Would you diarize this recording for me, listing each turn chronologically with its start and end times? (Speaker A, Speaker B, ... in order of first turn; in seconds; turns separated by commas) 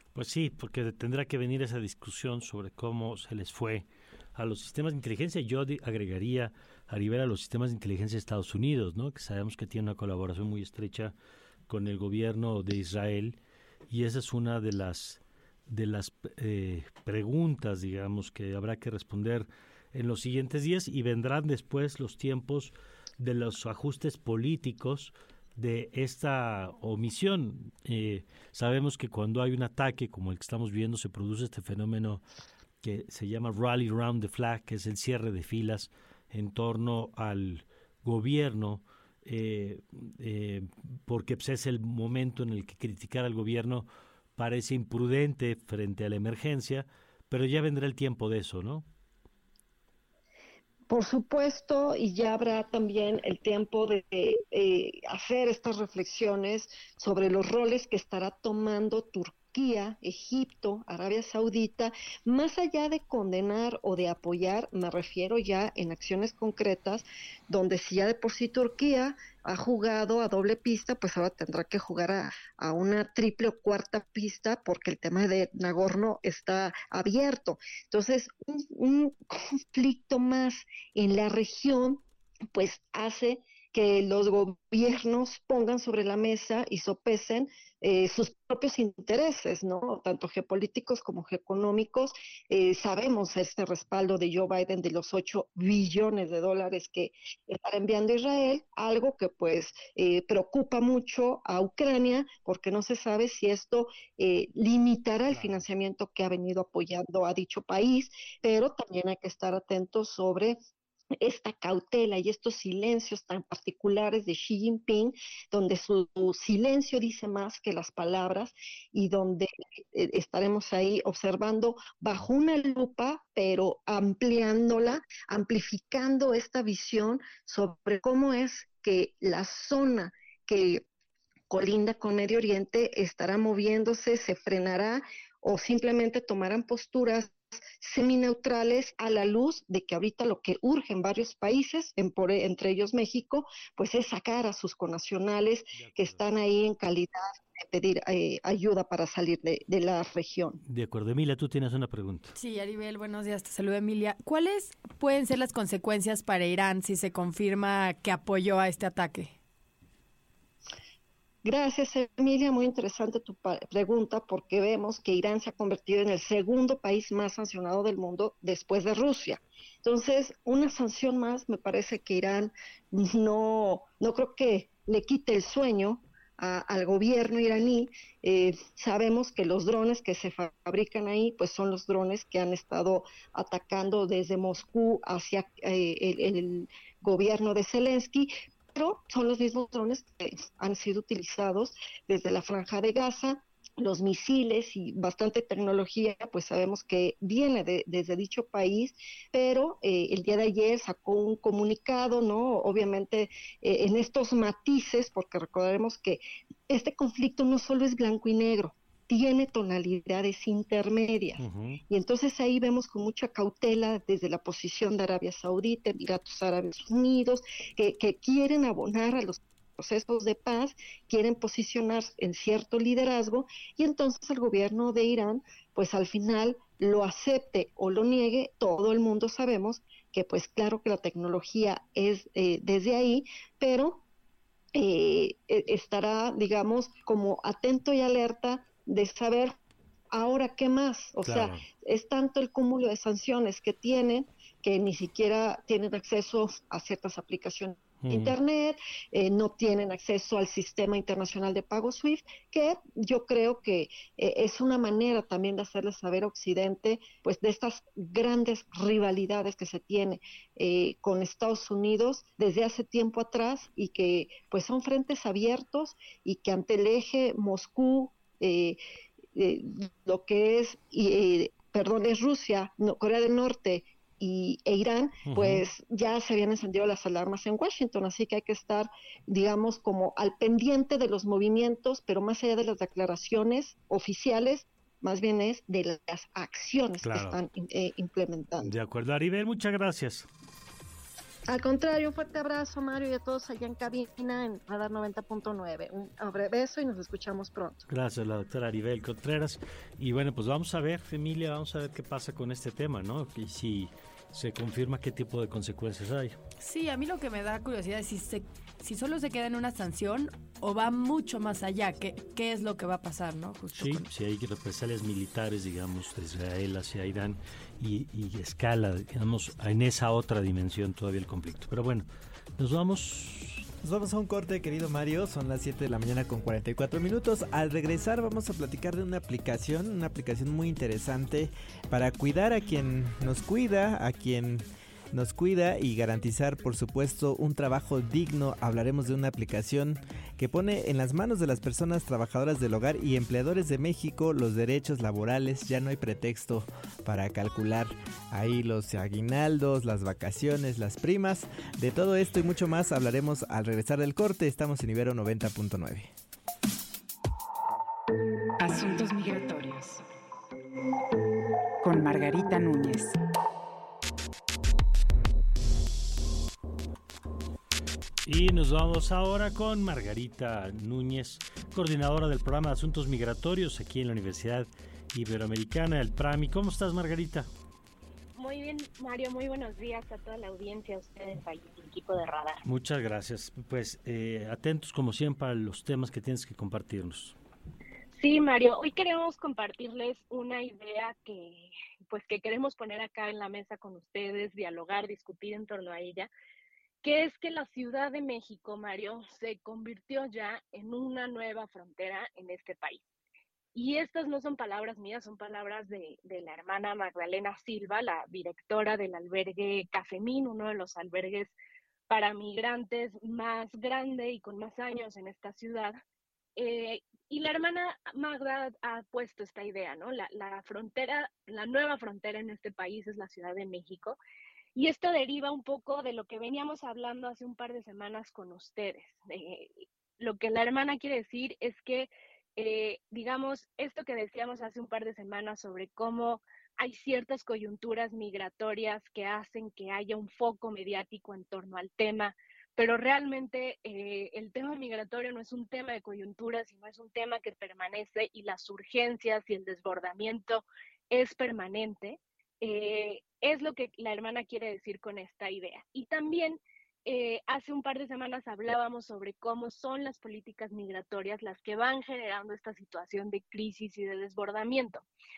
Speaker A: 0.1-11.1, Speaker A: 11.7-13.4, Speaker A: 13.9-32.2, Speaker A: 32.8-48.9, Speaker B: 50.9-110.6, Speaker A: 105.3-105.7, Speaker B: 111.2-130.8, Speaker B: 131.5-150.6, Speaker A: 145.7-146.2, Speaker A: 150.7-152.3, Speaker C: 152.3-159.4, Speaker B: 161.4-234.0, Speaker A: 211.4-211.8, Speaker B: 234.8-239.6, Speaker B: 240.1-268.8, Speaker A: 241.2-241.7, Speaker A: 248.1-248.3, Speaker B: 269.4-288.8, Speaker A: 275.2-275.6, Speaker A: 287.0-287.4, Speaker A: 288.6-290.3, Speaker B: 291.5-297.9, Speaker A: 297.9-306.4, Speaker C: 306.6-314.1, Speaker A: 313.7-323.7, Speaker D: 323.8-356.1, Speaker E: 358.6-360.0, Speaker E: 361.8-363.2, Speaker A: 368.2-377.5, Speaker F: 378.4-382.6, Speaker A: 382.6-387.4, Speaker F: 388.1-396.3, Speaker F: 397.0-403.1, Speaker F: 403.8-411.5, Speaker F: 412.1-416.0, Speaker F: 416.6-424.2, Speaker F: 424.8-465.1